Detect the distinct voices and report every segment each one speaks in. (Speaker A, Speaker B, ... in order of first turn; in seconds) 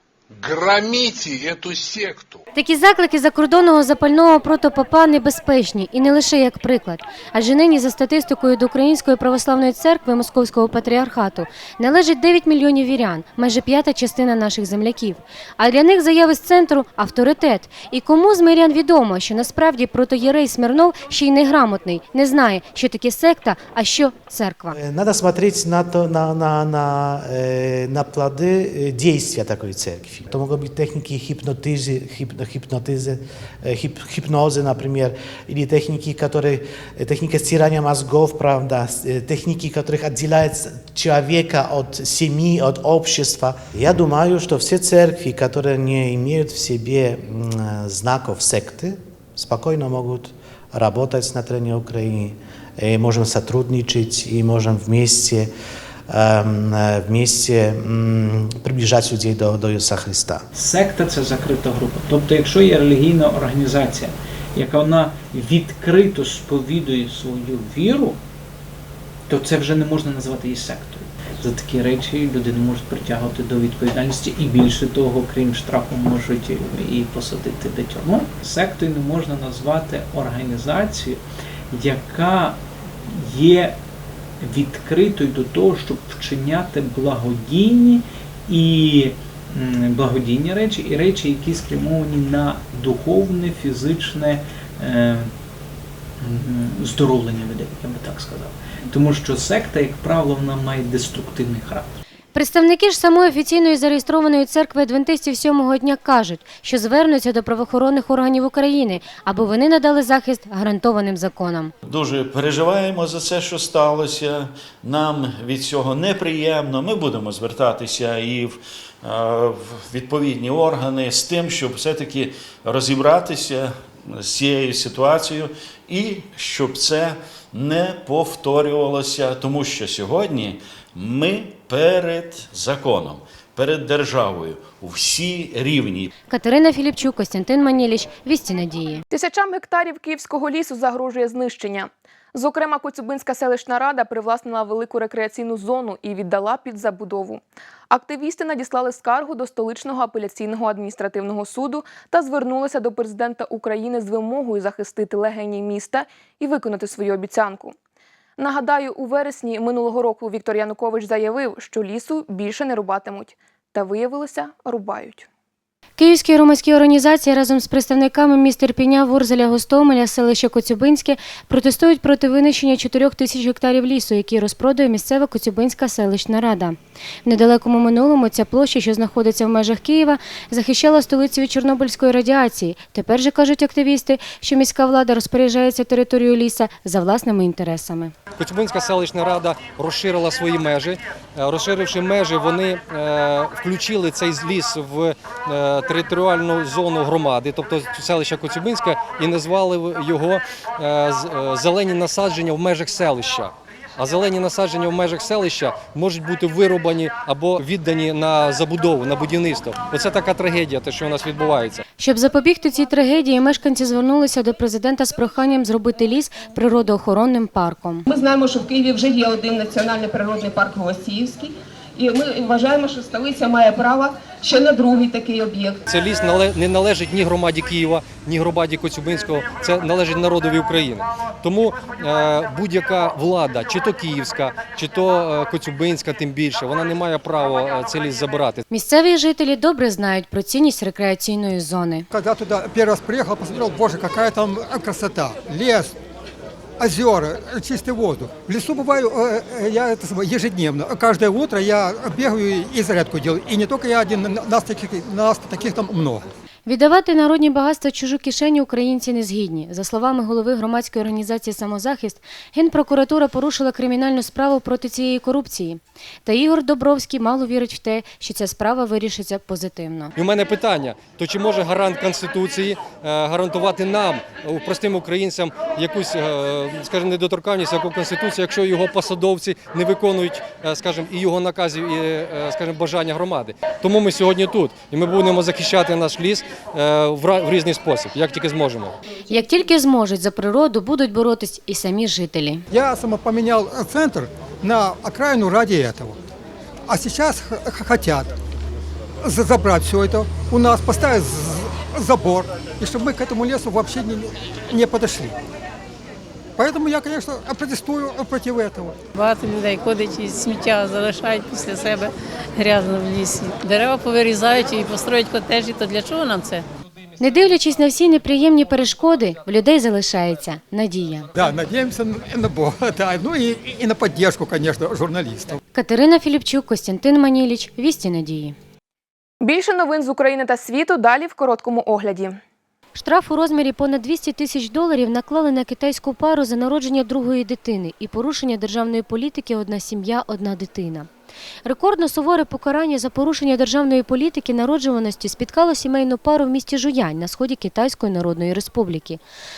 Speaker A: 0.3-2.4
Speaker B: 2.5-24.8, 102.3-111.7, 136.3-139.0, 166.0-188.1, 212.0-218.1, 238.7-242.1, 256.6-270.1, 289.3-292.6, 317.2-321.3, 325.7-328.6, 332.9-341.1, 341.6-349.2
Speaker C: 24.7-55.5, 56.1-60.4
Speaker D: 60.5-68.2, 69.3-83.8, 84.4-95.3, 96.2-102.0
Speaker E: 111.8-136.1
Speaker F: 139.1-157.7, 158.4-165.3, 329.4-332.4
Speaker G: 188.4-211.8, 225.9-238.6, 270.1-288.9
Speaker H: 218.1-225.8
Speaker I: 242.1-245.9, 246.8-256.2, 292.7-296.2, 296.9-298.3, 299.2-305.4, 306.6-309.0, 321.3-325.6
Speaker J: 309.1-316.6